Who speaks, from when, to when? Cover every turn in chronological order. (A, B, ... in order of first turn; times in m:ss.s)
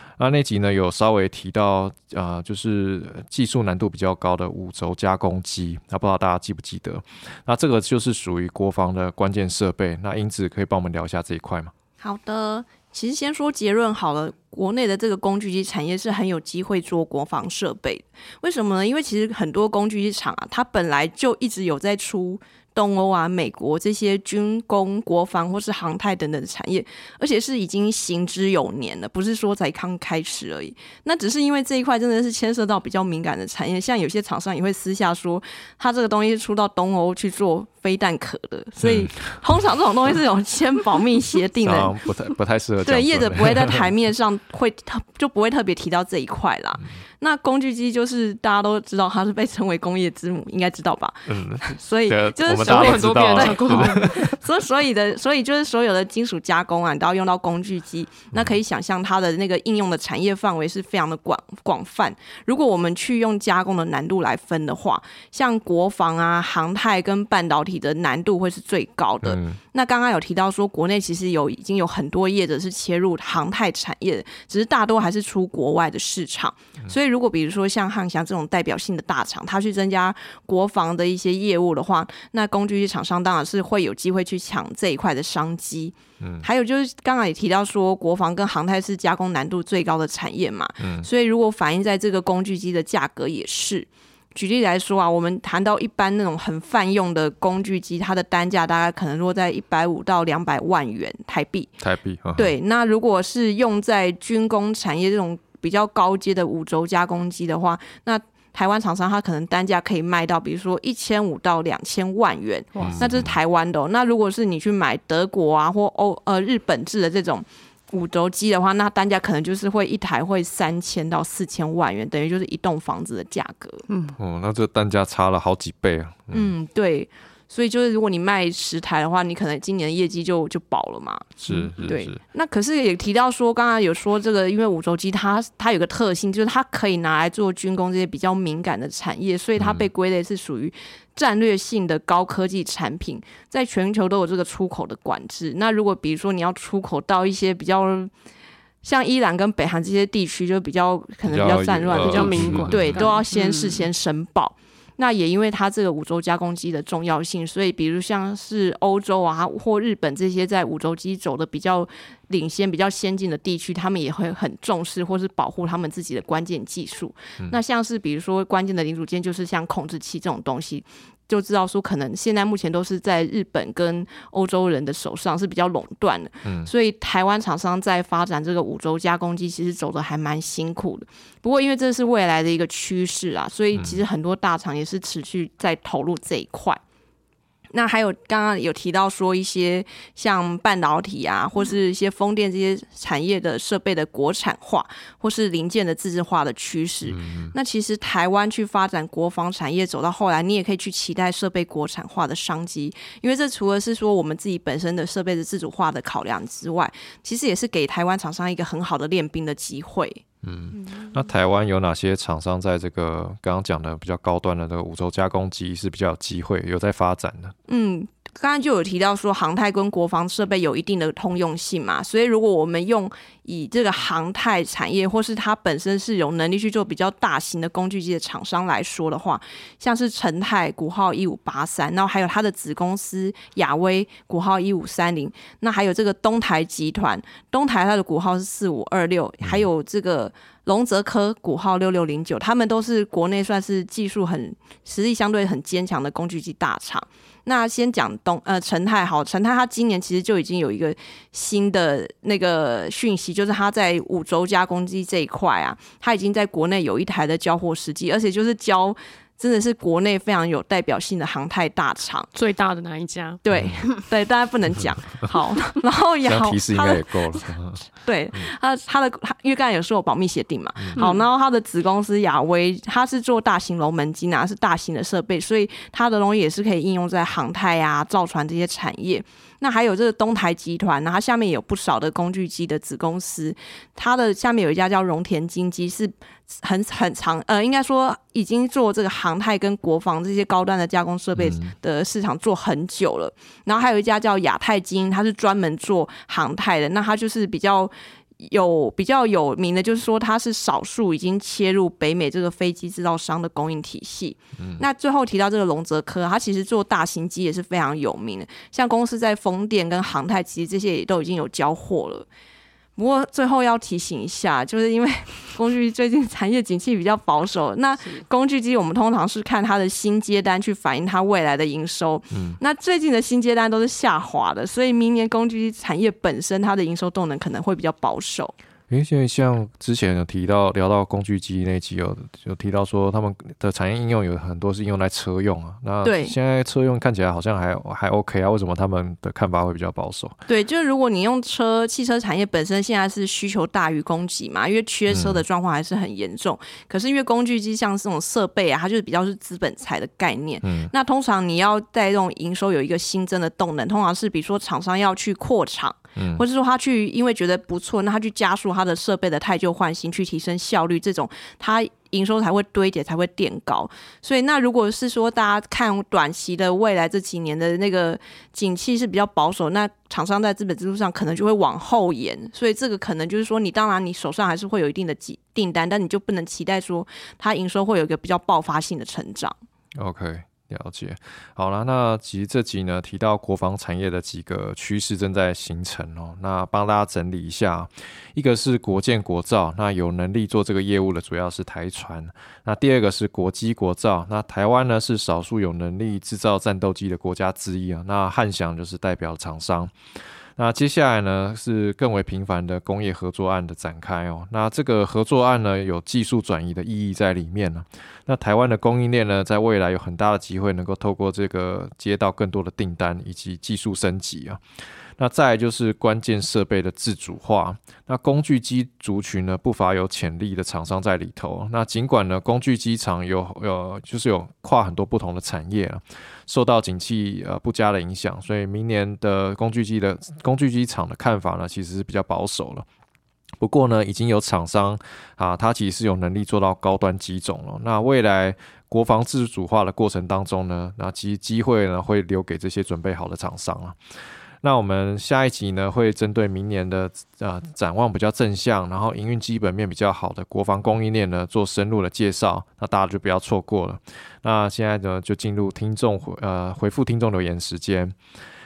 0:00.2-0:11.7 A
0:12.0-0:41.9 B
0:38.8-0:39.4 A
0:41.6-0:43.9 A
0:42.8-1:41.8 B
0:51.3-0:54.3 A
0:52.6-0:54.1 C
0:58.3-0:58.6 A
1:09.2-1:09.6 A
1:26.2-1:26.4 A
1:30.8-1:31.1 A
1:41.8-1:42.5 A
1:42.4-2:03.9 B
1:52.8-1:53.1 C
1:52.8-1:53.4 A
2:03.9-2:04.2 C
2:04.2-2:06.5 A
2:06.3-2:28.1 B
2:11.4-2:12.2 A
2:19.6-2:19.9 A
2:28.8-3:06.8 B
2:31.2-2:33.0 A
2:32.0-2:33.9 C
2:56.4-2:56.7 A
3:03.7-3:04.0 A
3:07.7-3:30.2 B
3:17.0-3:17.5 A
3:30.4-3:37.5 A
3:37.7-4:22.3 B
3:59.4-3:59.7 A
4:22.3-4:23.9 C
4:23.4-4:27.1 B
4:23.5-4:23.8 A
4:26.2-4:28.4 A
4:28.0-5:12.2 B
4:30.8-4:31.0 A
4:30.9-4:31.2 C
4:51.4-4:51.7 A
5:04.6-5:04.8 A
5:13.0-5:28.5 B
5:22.3-5:22.6 A
5:28.9-5:40.4 A
5:36.0-5:36.4 B
5:40.5-6:19.6 B
5:45.1-5:45.4 A
5:50.6-5:50.9 A
5:56.2-5:56.4 A
6:20.0-6:39.9 A
6:40.6-6:54.6 A
6:55.2-7:12.8 A
7:13.6-7:24.0 A
7:24.6-7:38.2 A